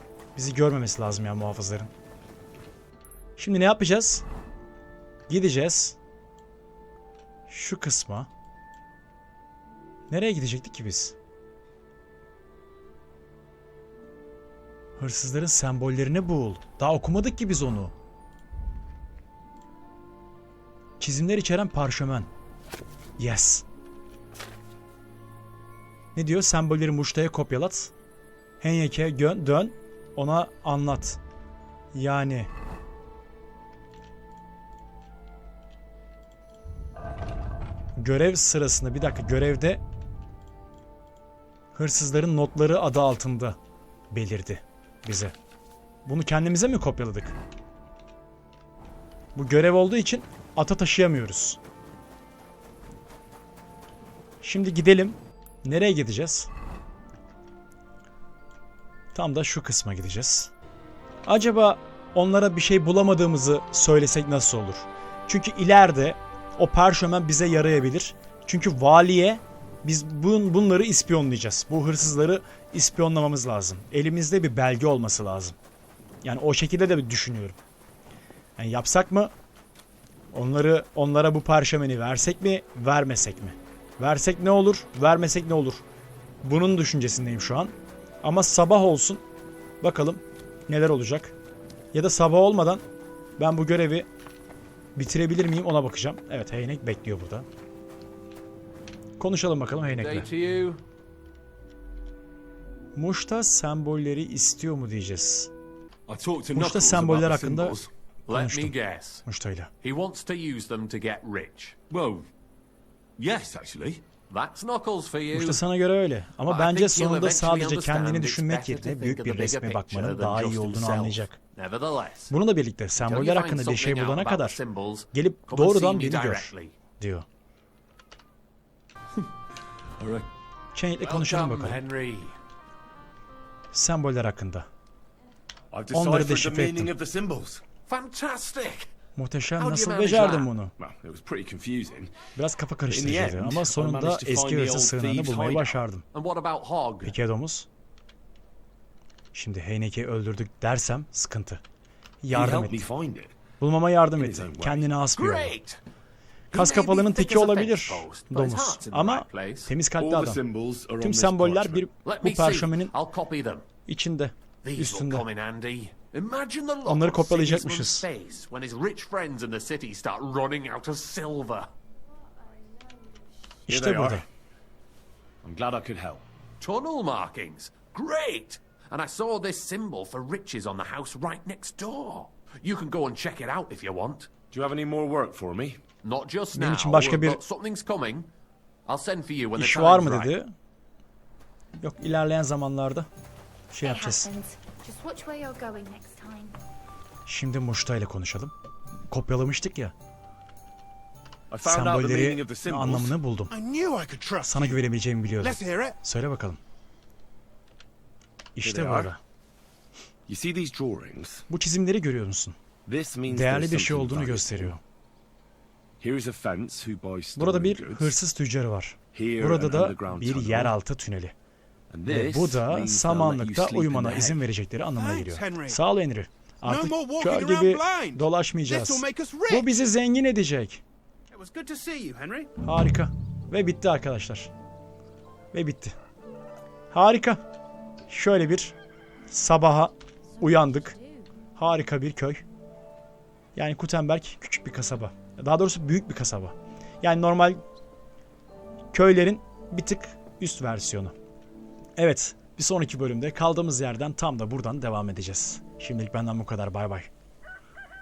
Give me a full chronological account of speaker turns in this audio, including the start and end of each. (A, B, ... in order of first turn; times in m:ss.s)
0:00.4-0:01.9 A
0:03.4-0:04.2 A
0:05.3-0:06.0 A
0:07.5-0:08.3 A
0:10.1-0:11.2 A
0:15.0-0:17.9 A
0:21.0-0:22.3 A
0:23.2-0:23.6 A
0:26.2-0:27.9 A
0:28.6-0:31.2 A
0:31.9-0:32.5 A
0:38.0-0:39.8 A
0:41.7-0:43.6 A
0:44.1-0:45.3 A
0:46.1-0:47.4 A
0:49.4-0:51.6 A
0:54.4-0:56.5 A
0:59.1-1:00.5 A
1:01.3-1:15.6 A
1:16.2-1:17.6 A
1:18.6-1:19.3 A
1:20.3-1:25.8 A
1:26.4-1:29.2 A
1:29.8-1:31.4 A
1:31.9-1:32.8 A
1:33.4-1:34.1 A
1:35.0-1:37.5 A
1:39.2-1:40.3 A
1:39.8-1:40.8 B
1:43.0-1:45.5 A
1:46.1-1:47.9 C
1:46.5-1:49.7 A
1:48.3-1:49.2 B
1:49.8-1:51.8 B
1:51.9-1:52.3 C
1:53.2-1:54.0 C
1:54.3-1:55.6 B
1:55.3-2:01.4 A
1:56.4-2:02.3 B
2:02.3-2:04.6 A
2:03.0-2:06.7 B
2:05.1-2:07.3 A
2:10.0-2:10.3 C
2:10.8-2:11.8 A
2:11.0-2:12.4 B
2:13.7-2:14.7 A
2:15.7-2:17.6 C
2:15.9-2:16.9 A
2:17.9-2:18.9 B
2:19.2-2:20.7 A
2:19.6-2:20.5 B
2:20.8-2:22.1 C
2:22.4-2:26.0 A
2:22.9-2:25.8 C
2:26.1-2:27.2 B
2:27.0-2:27.7 A
2:29.3-2:31.6 A
2:32.2-2:32.8 A
2:32.3-2:33.4 C
2:33.6-2:35.6 A
2:34.1-2:34.9 C
2:35.2-2:35.8 B
2:36.5-2:39.7 B
2:36.5-2:40.4 A
2:40.0-2:41.8 C
2:41.0-2:43.0 A
2:42.0-2:43.6 B
2:43.9-2:45.3 A
2:44.6-2:51.7 B
2:46.8-2:48.1 A
2:53.7-2:54.3 A
2:53.7-2:54.2 C
2:55.4-2:56.2 C
2:56.6-3:04.3 B
3:04.5-3:05.8 C
3:06.0-3:08.3 B
3:06.5-3:07.4 A
3:08.9-3:10.4 B
3:09.6-3:10.5 A
3:11.8-3:13.1 A
3:13.7-3:14.3 A
3:13.8-3:16.6 D
3:17.3-3:18.5 A
3:19.1-3:19.9 A
3:21.5-3:23.2 C
3:21.6-3:23.6 A
3:23.7-3:24.3 E
3:24.4-3:26.6 A
3:28.6-3:29.2 A
3:28.6-3:29.1 C
3:30.3-3:31.5 C
3:31.5-3:32.6 A
3:32.9-3:34.8 C
3:33.3-3:34.8 A
3:36.0-3:38.1 C
3:37.4-3:41.3 A
3:39.1-3:40.7 C
3:41.9-3:44.4 C
3:42.1-3:50.8 A
3:45.0-3:45.7 E
3:46.6-3:48.1 E
3:48.7-3:49.7 E
3:51.4-3:52.4 E
3:51.6-3:52.2 B
3:52.6-3:54.5 A
3:55.5-3:56.0 A
3:56.9-3:57.4 A
3:58.1-3:58.8 A
3:59.3-4:01.0 A
4:00.4-4:01.3 D
4:01.6-4:02.4 A
4:03.6-4:07.6 A
4:08.9-4:11.2 A
4:12.0-4:17.1 A